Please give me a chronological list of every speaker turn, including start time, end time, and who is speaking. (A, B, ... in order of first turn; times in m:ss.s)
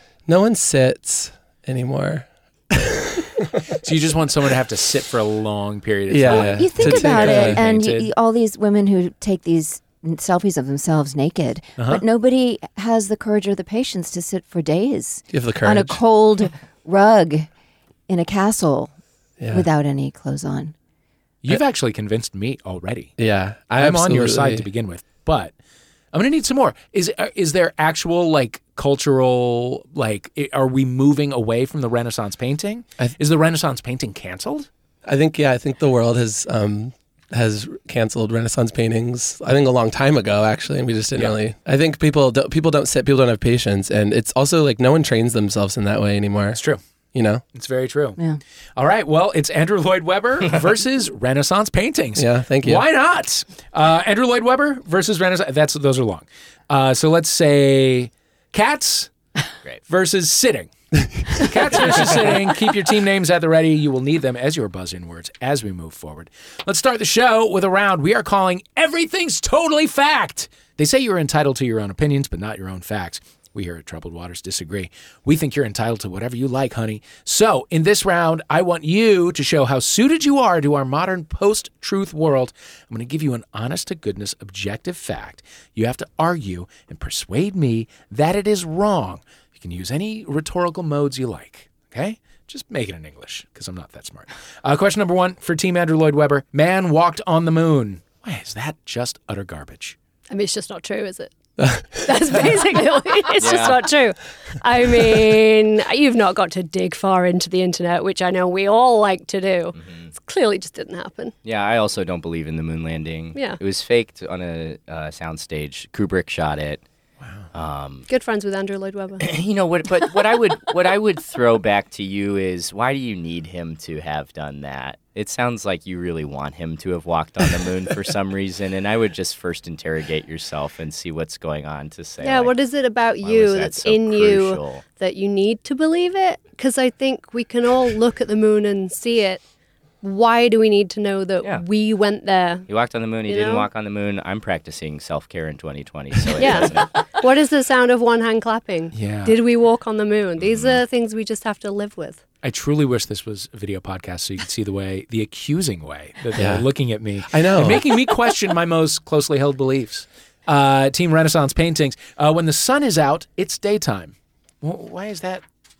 0:00.3-0:03.6 A
0:03.8-0:08.1 B
0:06.1-0:07.6 A
0:06.2-0:17.5 C
0:11.8-0:12.0 B
0:15.3-0:16.0 A
0:18.1-0:18.9 C
0:19.4-0:19.7 A
0:19.5-0:20.7 C
0:21.4-0:23.1 B
0:23.2-0:24.7 A
0:23.8-0:25.5 B
0:26.1-0:34.7 B
0:35.0-0:46.6 A
0:46.5-0:46.8 B
0:47.1-0:47.4 A
0:47.5-0:48.2 B
0:48.8-0:59.1 B
0:52.2-0:52.8 A
0:59.9-1:00.7 B
1:01.3-1:40.0 B
1:40.3-1:41.3 D
1:41.6-1:42.1 A
1:42.0-1:51.3 D
1:43.4-1:43.9 E
1:49.7-1:50.1 E
1:51.4-1:56.8 E
1:57.2-1:57.5 B
1:57.5-1:58.0 E
1:58.1-1:59.2 D
1:59.2-2:12.6 E
2:12.2-2:19.4 D
2:13.2-2:14.8 E
2:20.0-2:22.7 D
2:22.7-2:27.1 E
2:23.2-2:23.7 D
2:26.4-2:32.2 D
2:28.9-2:29.4 B
2:30.4-2:30.8 E
2:32.4-2:45.4 B
2:36.4-2:36.7 A
2:37.3-2:38.0 A